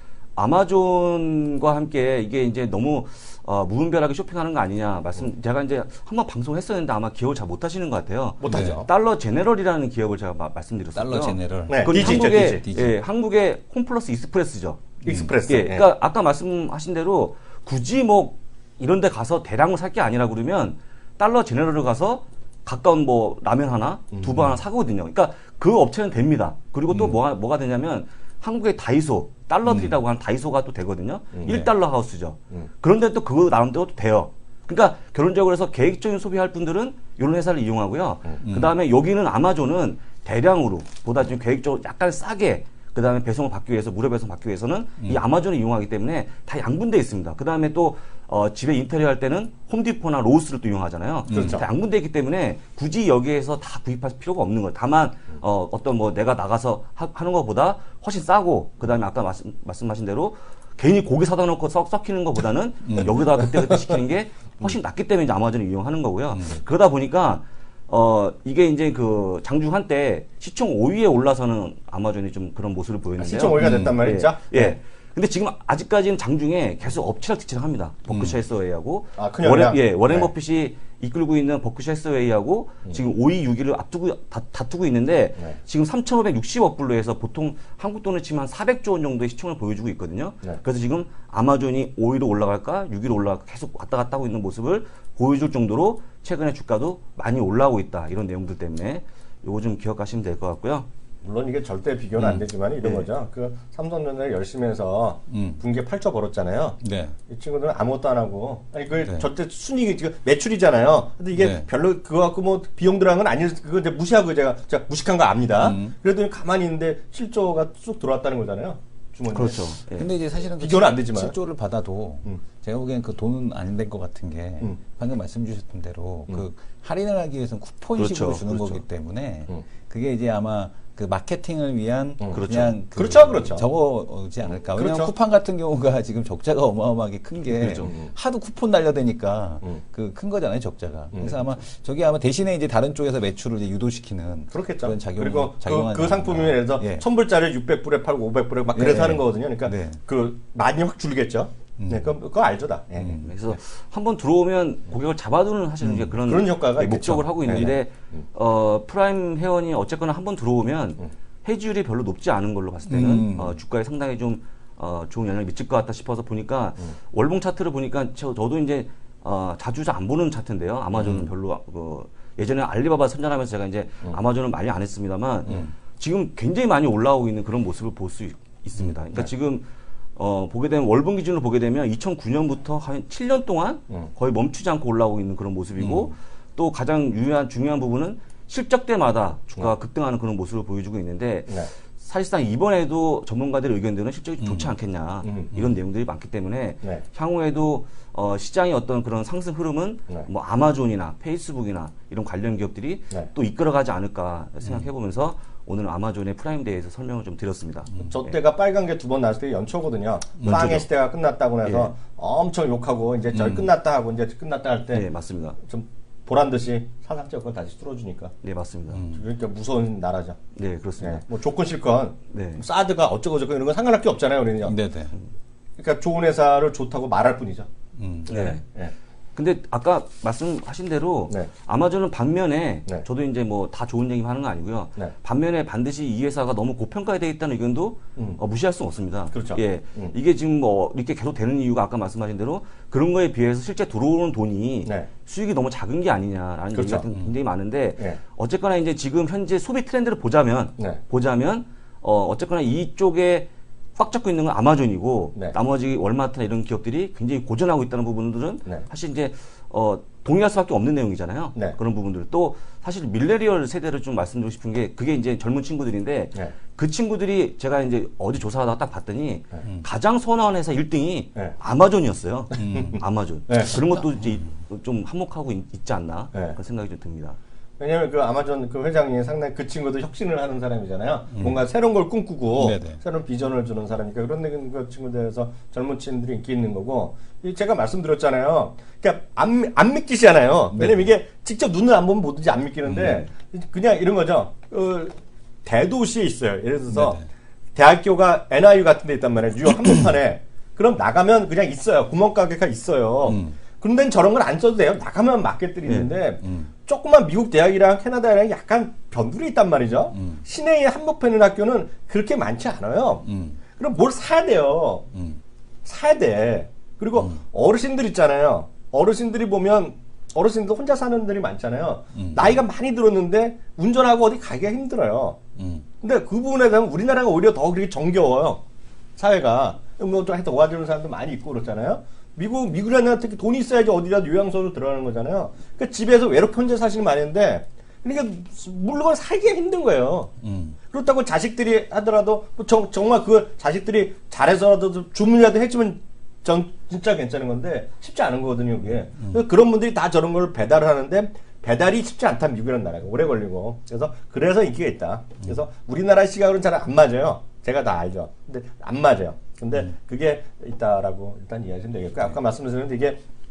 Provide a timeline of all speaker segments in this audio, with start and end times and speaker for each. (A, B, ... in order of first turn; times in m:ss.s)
0:00.4-0:14.9 A
0:08.4-0:08.9 B
0:08.5-0:08.8 C
0:11.0-0:13.0 C
0:11.7-0:12.6 B
0:15.0-0:15.9 B
0:15.0-0:15.3 C
0:15.5-1:40.9 A
0:29.7-0:30.0 C
0:31.4-0:31.6 B
0:31.5-0:31.7 C
0:38.4-0:38.7 C
0:51.3-0:51.6 C
0:51.3-0:51.6 B
1:02.8-1:03.2 C
1:06.3-1:06.6 C
1:13.2-1:14.8 B
1:13.6-1:14.0 C
1:18.1-1:18.4 C
1:19.2-1:20.3 B
1:41.2-1:59.6 B
1:45.3-1:45.6 C
1:46.8-1:47.2 C
1:51.4-1:51.7 C
1:55.6-1:56.0 C
1:59.3-2:00.1 A
2:00.0-2:27.1 C
2:00.6-2:01.3 B
2:08.0-2:08.8 A
2:12.3-2:12.8 A
2:12.9-2:13.7 B
2:14.8-2:15.1 B
2:17.6-2:17.9 A
2:17.9-2:18.1 B
2:24.5-2:33.3 B
2:28.7-2:30.0 C
2:31.8-2:32.2 C
2:33.0-2:33.3 C
2:33.2-2:59.6 A
2:35.8-2:36.2 C
2:36.3-2:38.2 B
2:37.5-2:37.8 C
2:42.9-2:43.6 C
3:00.2-3:28.1 A
3:05.8-3:06.1 C
3:14.4-3:14.7 C
3:15.2-3:15.5 B
3:28.1-3:35.1 B
3:30.4-3:30.8 C
3:30.5-3:30.8 A
3:31.6-3:31.9 A
3:33.3-3:33.7 C
3:34.9-3:35.6 A
3:35.6-3:38.3 B
3:38.4-3:39.0 A
3:38.9-3:39.2 C
3:39.1-3:40.4 B
3:40.6-3:41.2 A
3:41.0-3:44.8 B
3:42.3-3:42.6 A
3:44.6-3:45.1 C
3:45.8-3:47.7 B
3:48.0-3:48.3 C
3:48.3-3:48.9 B
3:48.3-3:48.6 A
3:49.4-4:37.4 A
3:59.3-4:00.1 B
4:06.7-4:07.1 B
4:32.6-4:33.0 C
4:33.5-4:33.8 B
4:37.8-4:57.2 B
4:41.4-4:41.6 C
4:42.6-4:43.0 C
4:50.7-4:51.0 C
4:52.9-4:53.2 C
4:56.9-4:57.2 C
4:57.8-5:15.1 B
5:03.3-5:03.6 C
5:06.4-5:06.7 C
5:10.1-5:10.4 C
5:13.2-5:13.6 C
5:15.1-5:15.4 C
5:15.8-5:25.4 B
5:17.2-5:17.4 C
5:22.2-5:22.6 C
5:25.6-5:25.8 C
5:26.0-5:28.6 B
5:29.2-5:40.3 B
5:40.4-5:40.8 C
5:40.9-6:03.2 B